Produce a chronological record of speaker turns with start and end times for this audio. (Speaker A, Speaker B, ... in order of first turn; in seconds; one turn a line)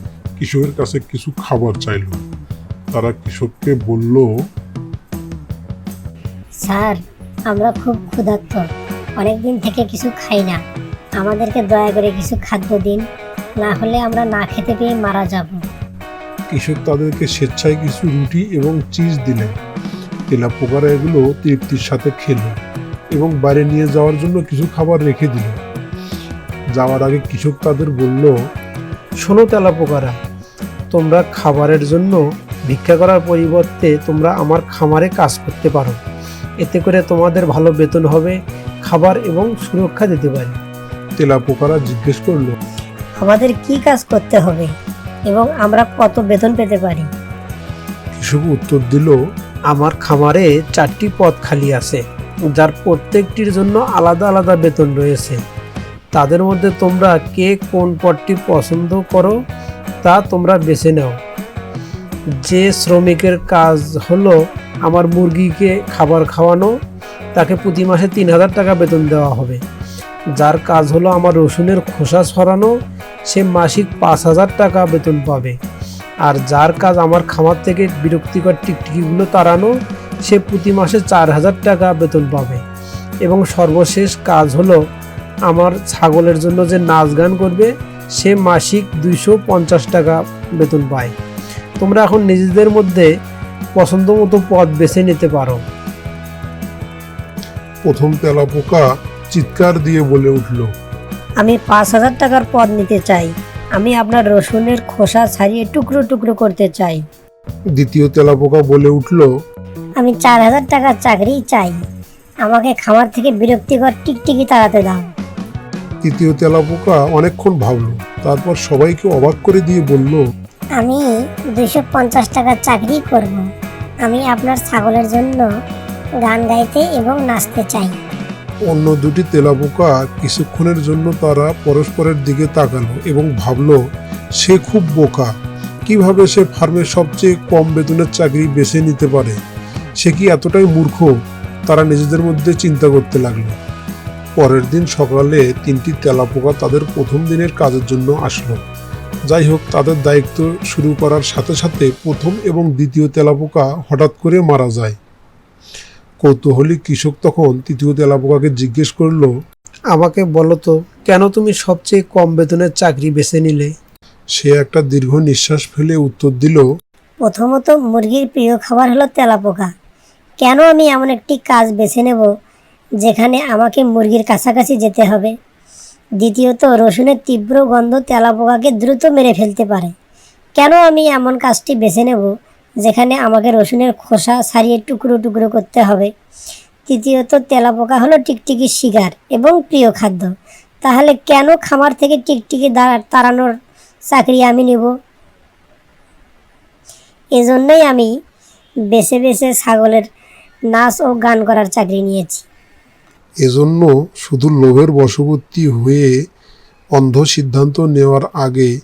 Speaker A: 0.4-2.2
Speaker A: 2.9-4.3
Speaker B: 6.6-7.0
Speaker B: 7.5-8.6
Speaker B: 9.2-10.6
Speaker B: 11.2-13.0
Speaker B: 13.6-15.6
Speaker A: 16.5-19.5
Speaker A: 20.3-22.5
Speaker A: 23.1-25.6
Speaker A: 26.7-28.3
Speaker C: 29.2-30.1
Speaker C: 30.9-36.0
Speaker C: 36.6-40.6
Speaker A: 41.2-42.5
Speaker B: 43.2-44.7
Speaker B: 45.3-47.1
Speaker A: 48.2-49.1
Speaker C: 49.7-52.0
Speaker C: 52.5-55.4
Speaker C: 56.1-59.4
Speaker C: 60.0-61.2
Speaker C: 62.4-64.3
Speaker C: 64.8-66.7
Speaker C: 67.3-69.6
Speaker C: 70.3-72.7
Speaker C: 73.3-75.6
Speaker C: 76.2-79.7
Speaker C: 80.2-82.6
Speaker C: 83.2-84.8
Speaker C: 85.5-91.1
Speaker C: 91.8-93.1
Speaker C: 93.8-95.6
Speaker A: 97.8-100.7
Speaker B: 101.4-107.0
Speaker A: 107.8-109.3
Speaker B: 110.0-111.8
Speaker B: 112.4-115.0
Speaker A: 116.0-120.2
Speaker B: 120.8-123.4
Speaker B: 124.0-125.5
Speaker B: 126.2-128.0
Speaker A: 128.7-133.8
Speaker A: 134.4-135.3
Speaker A: 135.9-139.4
Speaker A: 140.0-141.1
Speaker A: 141.7-143.6
Speaker A: 144.4-148.6
Speaker A: 149.3-154.9
Speaker A: 156.2-159.3
Speaker C: 159.9-163.7
Speaker A: 164.3-166.6
Speaker B: 167.2-169.7
Speaker B: 170.4-172.3
Speaker B: 173.0-175.3
Speaker B: 176.2-179.9
Speaker B: 180.6-182.3
Speaker B: 182.8-186.1
Speaker B: 186.9-190.3
Speaker B: 190.8-193.5
Speaker B: 194.1-194.9
Speaker B: 197.4-198.1
Speaker B: 198.9-200.0
Speaker B: 200.7-202.4
Speaker A: 203.4-206.1
Speaker A: 206.9-208.7